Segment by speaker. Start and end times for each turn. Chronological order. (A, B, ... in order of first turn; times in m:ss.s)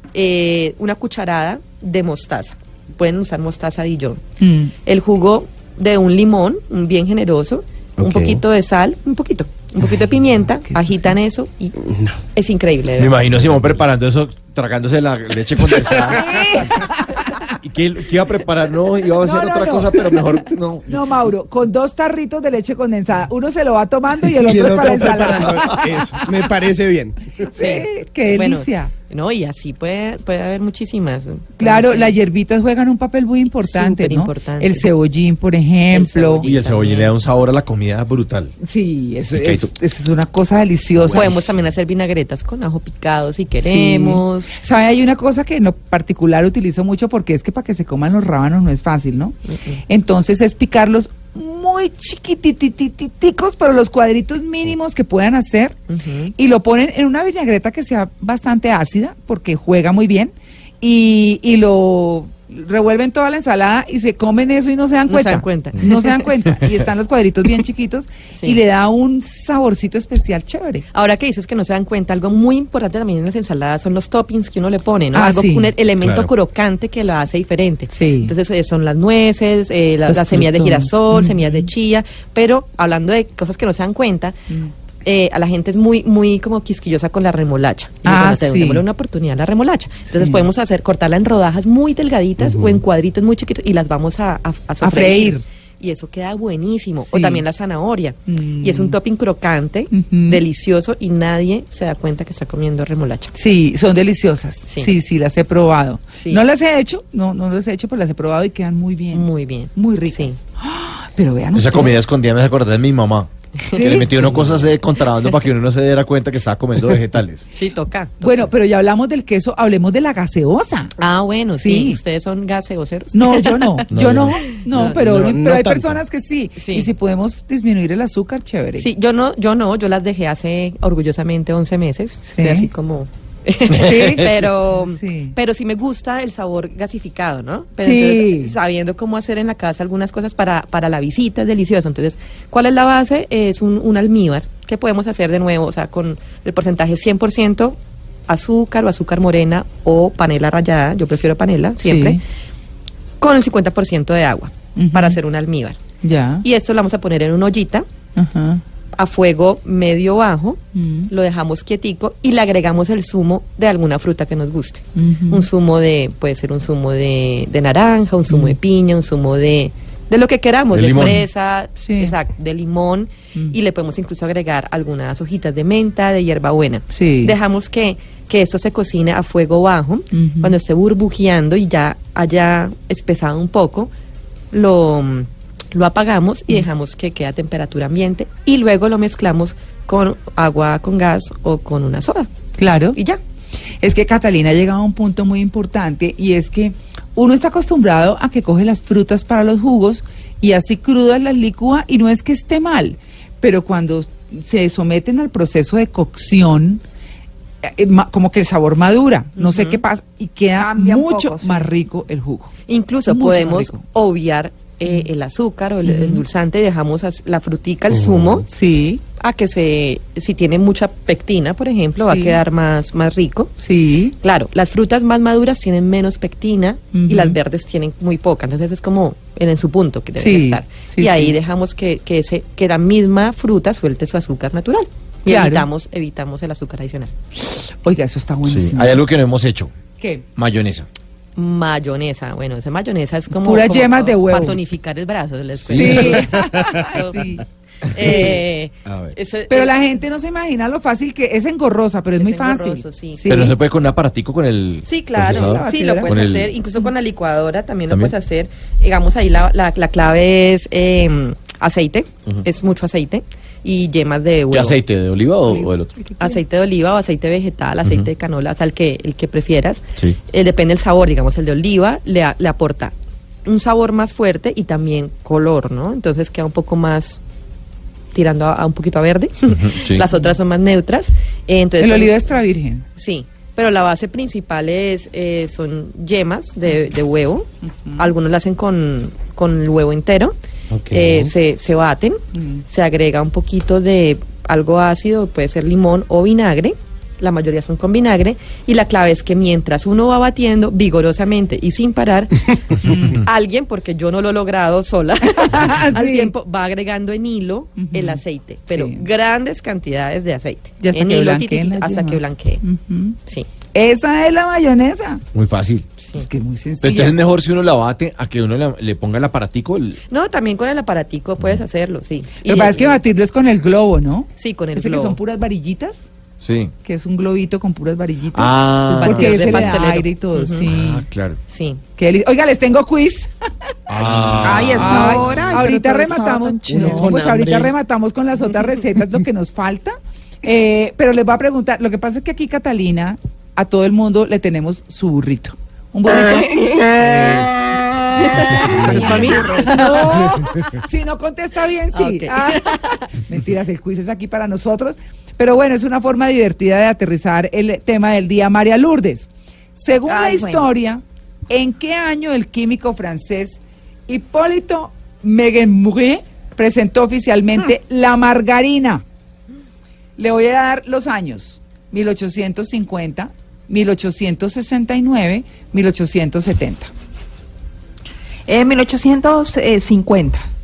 0:00.1-0:04.2 A
0:04.4-0:04.7 B
0:04.8-0:11.8 A
0:08.0-0:08.4 C
0:10.6-0:11.1 B
0:11.8-0:12.1 C
0:12.3-0:13.2 A
0:13.0-0:16.8 D
0:15.7-0:16.1 C
0:16.0-0:17.5 B
0:17.6-0:21.0 D
0:19.2-0:26.3 B
0:24.3-0:27.4 C
0:27.4-0:28.9 B
0:27.5-0:32.2 A
0:31.6-0:36.5 B
0:33.5-0:34.9 A
0:35.9-0:37.1 A
0:36.4-0:38.5 D
0:38.6-0:41.5 B
0:39.3-0:39.7 D
0:41.1-0:44.5 A
0:43.6-0:55.8 B
0:49.5-0:49.8 A
0:55.9-0:56.3 A
0:56.4-1:10.8 B
1:05.1-1:06.3 A
1:08.3-1:08.6 A
1:10.9-1:24.4 A
1:15.1-1:15.7 B
1:16.0-1:16.3 C
1:17.9-1:18.3 B
1:20.1-1:21.7 B
1:25.0-1:43.3 A
1:28.0-1:28.8 B
1:30.1-1:30.4 B
1:32.4-1:32.8 C
1:34.8-1:35.4 B
1:37.1-1:37.4 B
1:38.3-1:39.0 B
1:39.9-1:40.4 B
1:43.3-1:51.9 B
1:44.7-1:44.9 A
1:46.1-1:46.4 A
1:49.1-1:50.4 A
1:51.5-1:57.5 D
1:53.6-1:54.1 A
1:53.7-1:54.1 B
1:57.5-1:58.5 A
1:58.2-2:00.9 B
2:01.0-2:03.9 A
2:01.5-2:02.0 B
2:03.1-2:08.9 B
2:03.9-2:04.5 D
2:04.6-2:05.0 A
2:04.7-2:06.0 C
2:06.6-2:06.9 A
2:08.8-2:27.8 A
2:12.2-2:12.7 B
2:13.7-2:15.3 B
2:17.8-2:18.5 B
2:28.3-2:32.2 A
2:31.8-2:32.2 B
2:33.2-2:35.8 A
2:34.8-2:35.2 B
2:36.0-2:36.4 B
2:36.4-2:37.8 A
2:38.2-2:38.6 B
2:39.0-3:03.9 A
2:40.7-2:41.1 B
2:45.0-2:45.5 B
2:48.3-2:48.6 B
2:50.7-2:51.2 D
2:51.8-2:52.1 B
2:56.9-2:57.4 B
3:00.1-3:00.5 B
3:04.5-3:12.3 A
3:12.6-3:13.0 B
3:12.9-3:13.2 A
3:13.8-3:26.8 B
3:27.6-3:32.5 B
3:29.4-3:29.8 A
3:30.5-3:31.7 E
3:32.7-3:38.5 A
3:33.1-3:33.8 B
3:35.8-3:36.2 B
3:37.9-3:38.4 C
3:38.5-3:39.0 B
3:39.2-3:43.5 A
3:42.0-3:42.4 B
3:43.6-3:44.2 B
3:44.2-3:57.1 A
3:46.9-3:47.4 B
3:50.2-3:51.3 B
3:55.3-3:55.6 B
3:57.4-3:59.0 B
3:58.4-3:59.7 D
4:00.0-4:00.2 B
4:00.4-4:00.9 D
4:01.4-4:07.2 A
4:03.3-4:04.6 B
4:05.7-4:06.2 D
4:05.7-4:06.8 C
4:05.7-4:08.4 B
4:07.9-4:09.8 A
4:08.8-4:09.1 C
4:09.5-4:13.6 B
4:12.2-4:13.5 A
4:13.3-4:16.5 D
4:14.8-4:24.8 A
4:15.2-4:16.2 B
4:24.5-4:25.9 D
4:25.5-4:26.4 B
4:26.2-4:32.9 A
4:27.8-4:28.1 D
4:33.4-4:37.2 A
4:38.1-4:42.2 A
4:39.5-4:40.0 D
4:41.8-4:42.8 B
4:43.0-4:50.3 A
4:50.7-4:51.3 C
4:50.9-5:12.6 A
4:52.3-4:52.6 B
5:02.8-5:03.2 B
5:05.3-5:06.3 B
5:07.8-5:09.0 B
5:10.8-5:13.2 B
5:13.7-5:15.2 B
5:15.3-5:15.9 D
5:16.0-5:16.2 A
5:16.1-5:17.2 B
5:16.8-5:20.0 D
5:20.1-5:23.0 A
5:22.4-5:26.0 B
5:24.4-5:25.2 A
5:26.4-5:26.7 D
5:26.8-5:31.0 B
5:28.3-5:29.8 D
5:28.9-5:30.7 A
5:30.7-5:31.4 D
5:31.5-5:31.8 A
5:32.0-5:33.3 B
5:33.9-5:35.7 D
5:34.4-5:37.1 E
5:34.8-6:09.0 B
5:36.6-5:37.7 C
5:48.2-5:50.2 A
5:48.8-5:49.4 C
5:51.9-5:53.0 A
6:00.1-6:00.7 E
6:10.2-6:16.9 B
6:18.5-6:20.5 E